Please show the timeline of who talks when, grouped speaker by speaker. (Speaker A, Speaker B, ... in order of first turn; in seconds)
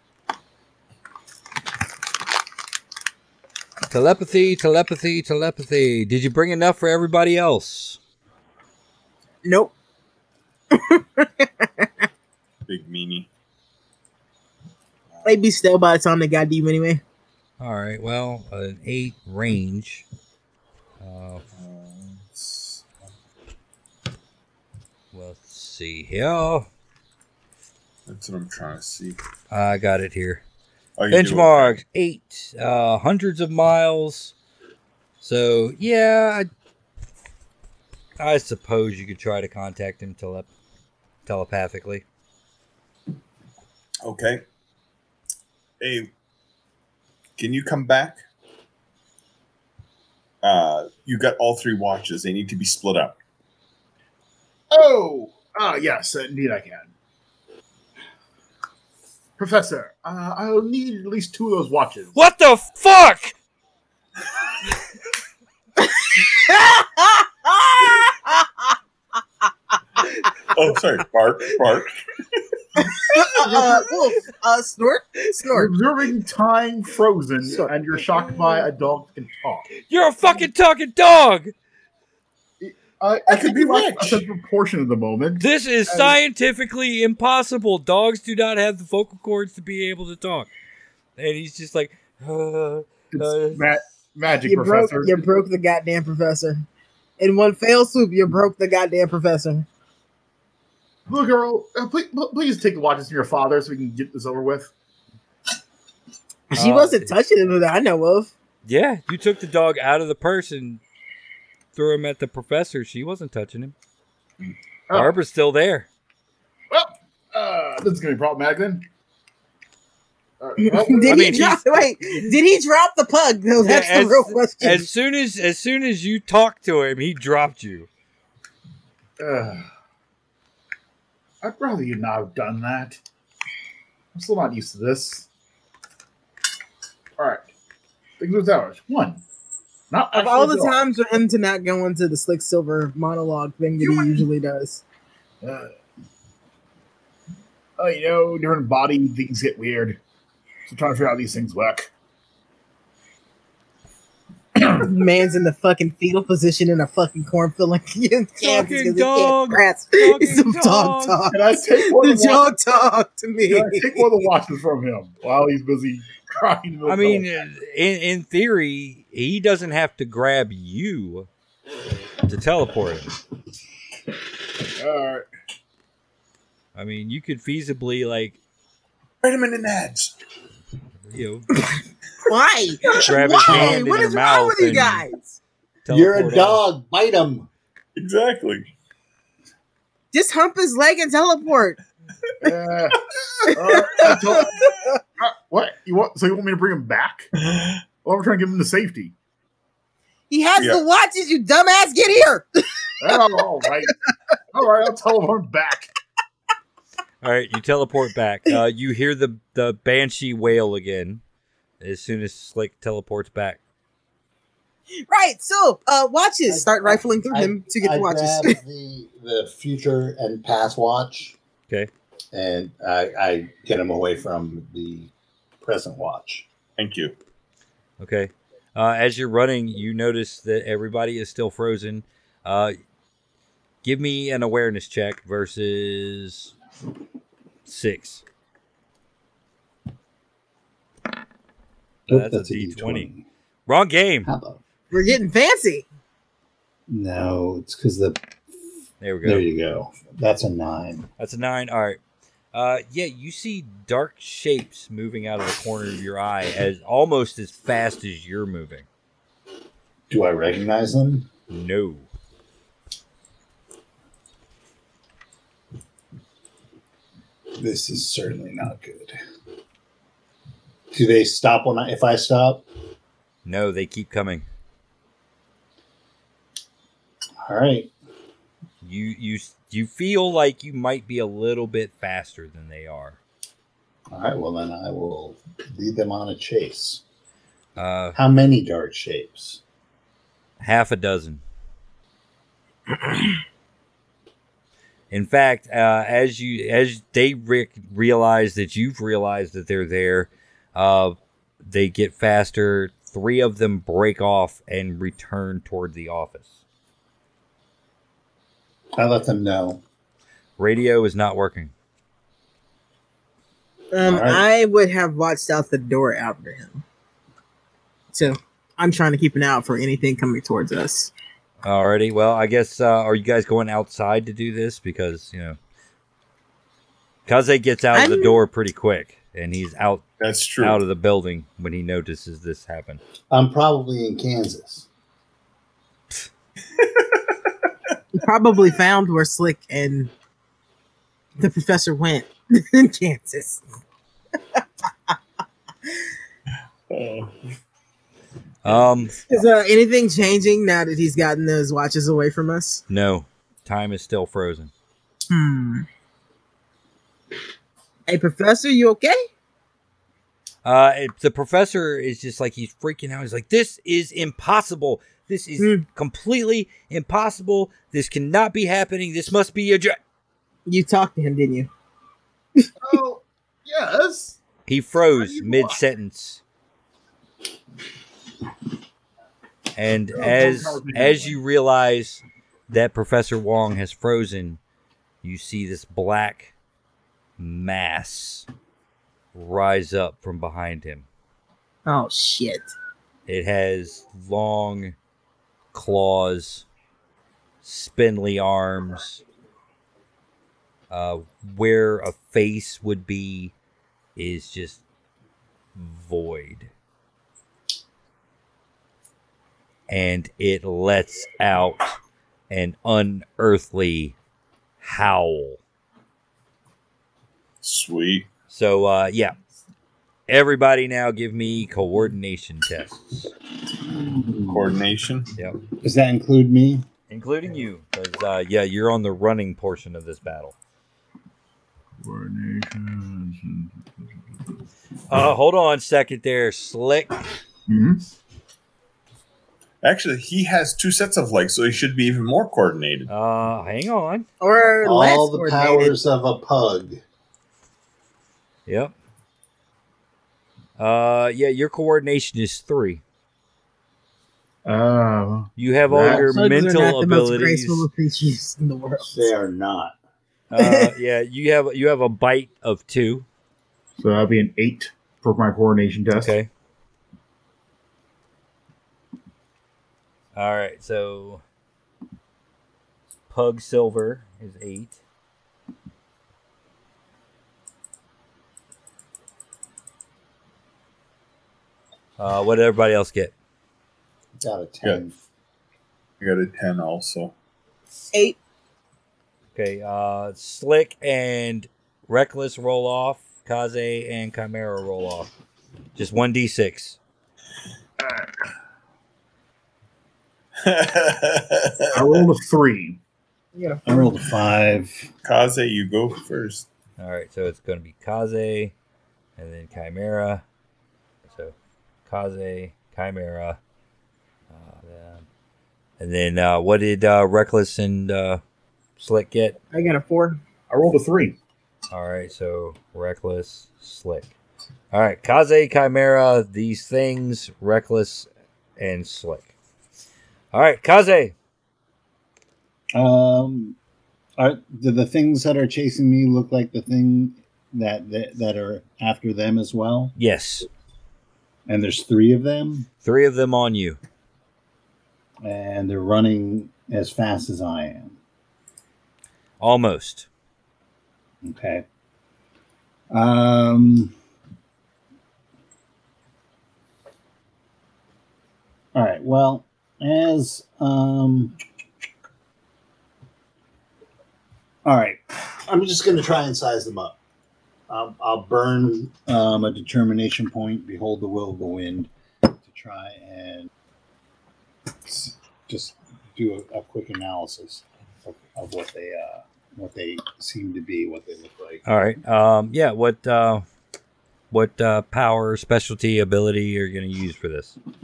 Speaker A: 3.9-8.0, 17.6-20.0, 21.0-21.4, 25.1-26.7, 29.5-30.4, 31.1-34.3, 35.2-36.5, 38.2-40.5, 41.2-42.0, 62.1-63.3, 79.8-81.5, 85.4-90.5, 91.2-93.6, 106.5-107.1, 108.6-110.8, 111.7-113.7, 114.9-115.9, 121.0-122.3, 123.6-127.9, 158.4-161.2, 166.8-171.3, 172.2-173.1, 176.7-178.4, 181.1-181.5, 183.0-185.0, 185.8-186.6, 207.2-211.2, 211.8-213.6, 228.0-232.8, 233.8-236.5, 237.6-238.2, 242.1-243.1, 243.7-244.3, 249.0-249.4, 251.2-252.0, 252.5-258.9, 261.5-262.1, 273.4-274.4, 278.8-283.2, 287.8-288.2, 290.6-291.4, 295.1-306.6, 310.6-311.7, 321.6-325.6, 327.3-330.0, 330.6-333.0, 348.6-349.2, 352.9-354.7, 360.6-370.0, 374.7-376.4, 379.7-384.6, 385.2-386.5, 387.4-388.4, 389.3-391.1, 393.3-394.9, 395.7-396.6, 397.6-399.2, 400.9-403.5, 404.1-404.8, 405.8-406.7, 409.9-411.9, 412.5-414.1, 414.8-415.6, 418.5-419.3, 420.3-423.3, 427.1-430.5, 435.1-437.2, 443.1-444.2, 448.7-448.9, 450.8-453.0, 455.6-457.9, 460.5-463.2, 466.2-466.5, 470.3-471.4, 473.3-475.0, 482.2-483.3, 489.5-495.3, 495.9-497.0, 507.0-508.7, 509.4-510.4, 512.1-513.6, 514.5-515.2, 516.0-518.4, 519.0-519.6, 521.9-524.3, 524.9-529.5, 530.5-531.3, 540.1-540.7, 543.0-544.0, 549.6-550.3, 581.8-583.6, 584.5-587.8
Speaker B: 9.4-9.7, 10.7-11.9, 15.2-17.0, 65.8-68.7, 72.8-75.7, 94.5-96.7, 97.2-99.7, 106.5-108.3, 120.6-124.9, 140.1-144.8, 154.6-164.1, 182.2-185.4, 190.1-191.8, 193.7-194.7, 200.3-203.2, 215.1-218.6, 244.9-245.8, 313.9-316.8, 318.1-321.1, 327.9-328.4, 338.1-340.1, 341.4-343.6, 344.6-345.1, 349.2-352.8, 355.3-355.9, 358.1-359.2, 370.6-371.7, 391.9-392.7, 444.4-445.9, 456.1-459.3, 460.6-460.9, 503.5-504.1, 519.7-520.4
Speaker C: 12.7-13.3, 21.6-22.8, 28.1-29.2, 31.0-31.7, 44.0-44.4, 45.8-46.1, 47.4-48.2, 50.4-53.2, 70.5-72.0, 83.3-84.2, 179.2-180.1, 187.9-188.7, 197.4-197.8, 226.8-227.1, 330.2-330.8, 346.9-347.3, 417.6-418.3, 424.5-425.3, 439.8-443.1, 486.2-487.3, 500.6-502.2, 505.2-506.7
Speaker D: 54.7-56.9, 59.4-62.2, 73.3-73.8, 75.5-79.7, 82.6-86.2, 93.1-95.2, 101.1-104.7, 114.9-115.1, 116.7-118.8, 120.4-121.3, 129.2-129.7, 131.4-133.0, 134.1-135.3, 137.2-137.5, 138.2-139.2, 139.9-140.8, 143.8-144.2, 145.4-145.7, 147.8-150.0, 150.7-151.9, 161.3-162.5, 163.5-167.4, 174.6-175.3, 192.4-194.6, 195.2-197.3, 198.0-199.1, 203.0-203.9, 204.5-205.9, 372.8-374.4, 375.0-375.8, 380.1-381.4, 424.0-424.5, 432.0-433.7, 437.7-438.0, 454.6-456.3, 464.0-466.4, 498.0-498.3, 501.9-503.0, 520.7-521.4
Speaker E: 185.9-187.5, 216.5-221.3, 222.3-226.4, 242.1-243.2, 244.2-244.6, 246.9-248.2, 249.2-251.1, 260.1-261.3, 267.6-269.1, 270.9-272.6, 277.4-277.9, 284.1-287.0, 288.1-289.6, 308.9-309.8, 314.0-314.4, 333.3-334.9, 425.8-426.9, 444.8-447.0, 459.0-459.9, 484.4-485.1, 503.9-505.1, 532.9-533.8, 534.4-540.1, 541.7-542.9, 545.4-548.2, 551.4-551.8, 553.1-554.1, 558.9-561.5, 564.8-567.2, 567.9-573.7, 575.1-581.8